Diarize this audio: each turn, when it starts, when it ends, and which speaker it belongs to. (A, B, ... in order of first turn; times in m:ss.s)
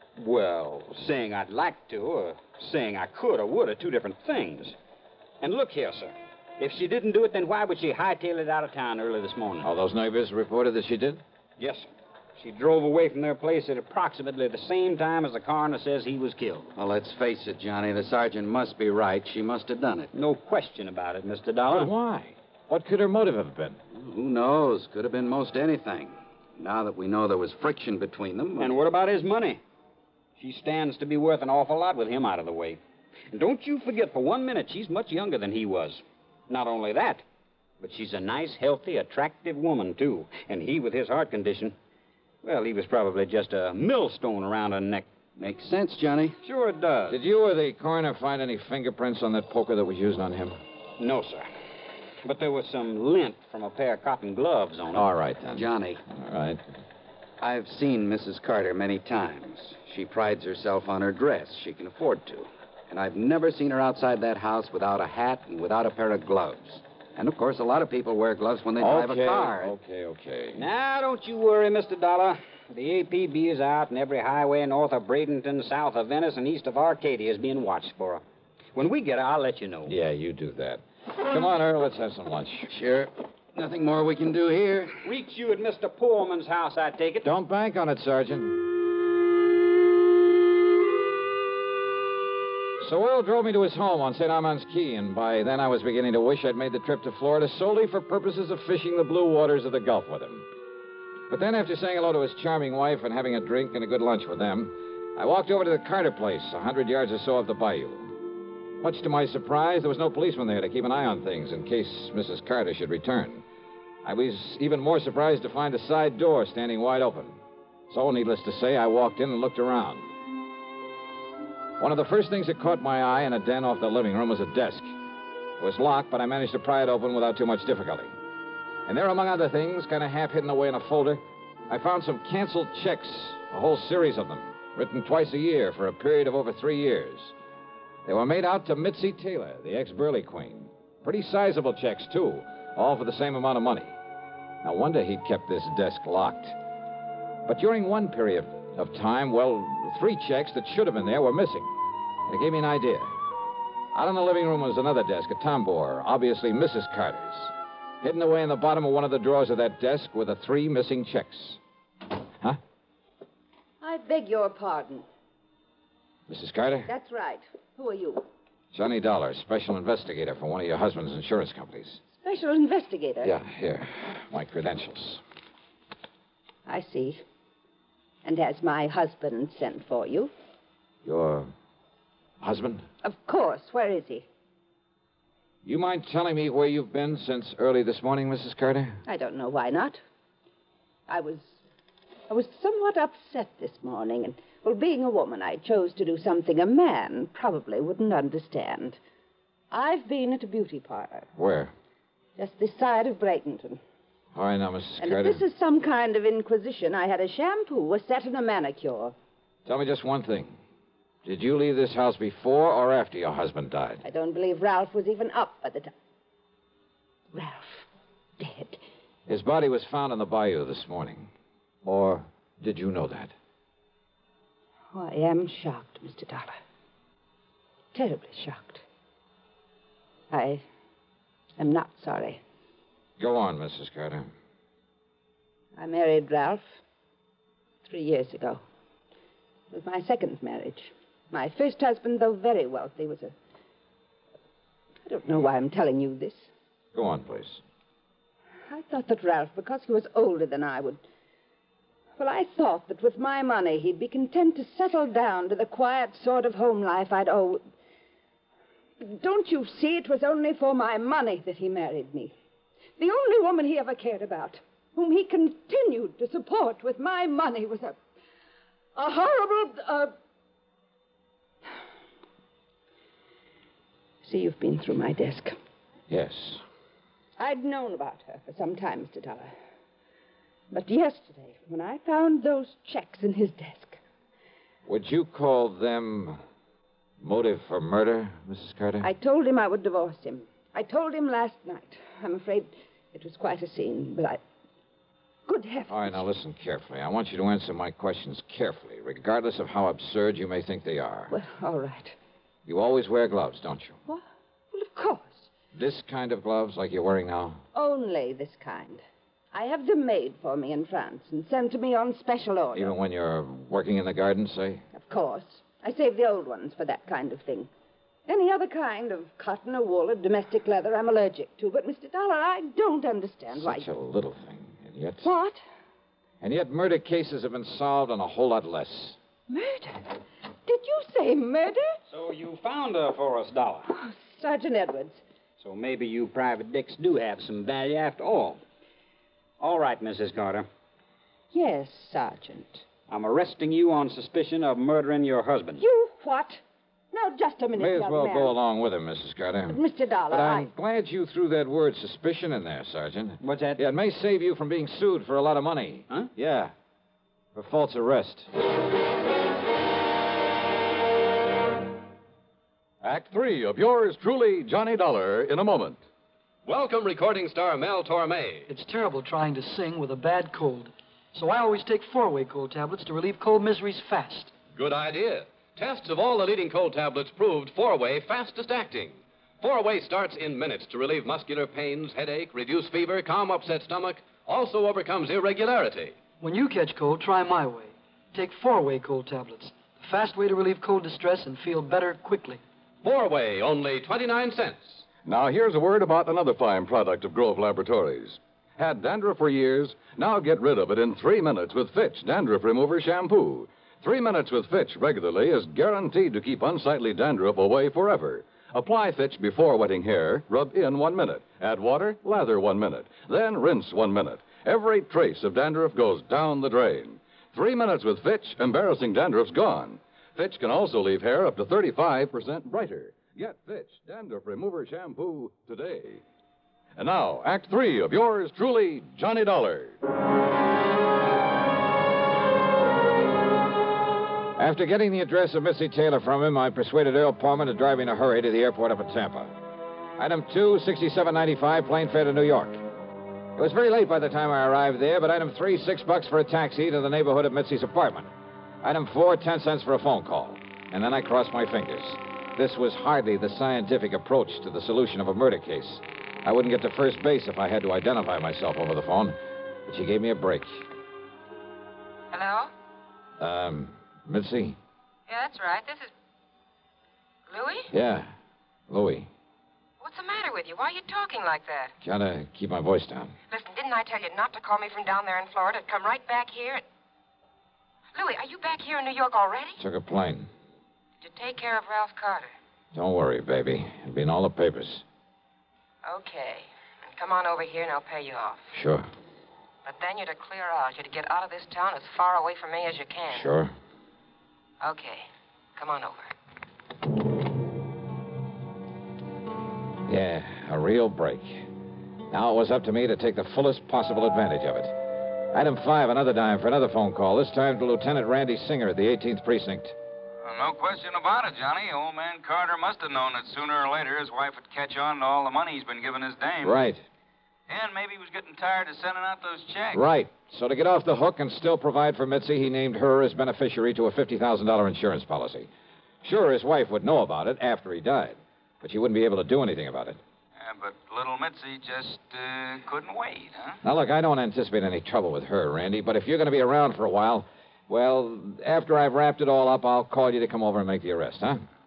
0:00.2-0:04.8 A
0:05.4-0:09.7 A
0:09.6-0:11.2 B
0:11.6-0:11.9 A
0:12.4-0:16.7 A
0:16.8-0:20.1 C
0:20.1-0:21.9 A
0:21.7-0:23.8 B
0:23.9-0:28.8 C
0:28.6-0:29.6 A
0:30.4-0:32.8 A
0:33.3-0:37.2 A
0:37.8-0:41.8 A
0:42.4-0:45.0 A
0:45.4-0:46.4 C
0:46.4-0:47.2 A
0:47.1-0:50.6 B
0:51.0-0:51.5 A
0:52.2-0:55.0 A
0:54.9-0:56.6 B
0:55.5-0:56.0 C
0:57.4-1:09.7 C
1:08.8-1:10.6 B
1:10.6-1:18.2 A
1:18.8-1:19.9 A
1:19.9-1:22.7 B
1:22.7-1:25.0 C
1:25.0-1:27.3 A
1:27.2-1:28.6 B
1:32.8-1:40.4 B
1:41.3-1:48.2 B
1:48.8-1:53.4 B
1:54.0-1:57.4 B
1:57.9-2:00.1 B
2:01.8-2:04.9 B
2:05.6-2:08.1 B
2:08.9-2:17.3 B
2:18.0-2:24.0 B
2:24.6-2:26.6 B
2:27.5-2:31.7 B
2:32.3-2:33.1 B
2:33.9-2:41.6 B
2:43.8-2:45.0 D
2:46.3-2:46.9 B
2:46.9-2:48.2 D
2:48.7-2:52.0 B
2:52.2-2:53.3 D
2:53.2-2:55.2 B
2:56.7-2:57.2 D
2:58.2-3:00.3 D
3:01.0-3:01.5 B
3:02.4-3:02.8 B
3:03.0-3:04.2 D
3:05.6-3:09.0 B
3:09.0-3:10.0 D
3:11.1-3:11.6 D
3:12.3-3:19.0 D
3:19.7-3:21.3 D
3:21.4-3:21.7 B
3:22.4-3:23.8 D
3:24.4-3:25.4 B
3:25.0-3:29.1 D
3:29.6-3:30.6 B
3:31.2-3:34.0 B
3:34.0-3:35.9 D
3:37.3-3:37.9 D
3:38.4-3:38.8 D
3:39.3-3:41.3 B
3:41.8-3:43.3 B
3:44.9-3:46.5 D
3:47.9-3:48.8 D
3:50.3-3:50.6 D
3:51.6-3:52.4 D
3:53.2-3:54.3 B
3:55.8-3:56.8 D
3:57.9-3:58.6 D
3:59.7-4:03.3 D
4:05.0-4:06.5 D
4:06.9-4:07.6 B
4:08.7-4:11.0 D
4:12.2-4:17.6 D
4:19.0-4:22.3 D
4:23.0-4:28.0 D
4:29.0-4:30.1 D
4:34.2-4:35.5 D
4:36.1-4:36.6 B
4:37.4-4:39.5 D
4:40.7-4:44.0 D
4:44.9-4:46.4 B
4:47.2-4:49.1 B
4:49.0-4:54.4 D
4:55.5-4:56.2 D
4:55.9-5:01.3 B
5:01.3-5:02.2 D
5:02.7-5:04.0 B
5:04.1-5:05.5 D
5:05.8-5:07.6 B
5:07.7-5:12.9 D
5:12.7-5:14.8 B
5:14.9-5:17.7 D
5:18.3-5:23.9 D
5:23.5-5:25.3 B
5:25.2-5:25.6 D
5:26.4-5:29.2 B
5:29.5-5:32.0 D
5:32.1-5:33.9 A
5:33.9-5:35.2 D
5:35.6-5:38.6 A
5:39.6-5:40.7 A
5:41.5-5:42.8 D
5:43.1-5:45.8 A
5:45.8-5:46.6 D
5:47.1-5:48.5 D
5:47.8-5:56.7 B
5:49.7-5:50.7 D
5:53.4-5:53.8 A
5:57.5-5:58.5 B
6:03.0-6:06.0 E
6:06.6-6:08.7 F
6:08.7-6:14.5 G
6:14.7-6:26.2 F
6:26.4-6:32.6 G
6:33.0-6:35.0 F
6:35.2-7:06.2 E
7:07.0-7:10.0 E
7:14.6-7:19.5 B
7:20.2-7:22.8 B
7:23.6-7:28.3 B
7:28.8-7:40.9 B
7:42.3-7:42.7 H
7:43.4-7:44.8 B
7:45.3-7:46.1 H
7:47.5-7:47.9 H
7:47.9-7:48.3 B
7:48.9-7:49.3 B
7:50.0-7:51.9 H
7:52.0-7:53.3 B
7:53.5-7:56.8 H
7:58.1-7:59.8 H
7:59.8-8:00.5 B
8:01.2-8:02.5 H
8:02.9-8:05.0 B
8:06.0-8:08.7 H
8:08.7-8:09.0 B
8:09.8-8:13.5 H
8:13.3-8:13.7 B
8:14.8-8:16.3 H
8:20.1-8:21.7 B
8:22.3-8:25.0 B
8:25.5-8:30.0 B
8:30.5-8:36.7 I
8:36.6-8:37.0 B
8:37.7-8:40.0 I
8:39.9-8:45.7 B
8:46.2-8:50.2 B
8:50.6-8:53.6 I
8:53.8-9:01.6 B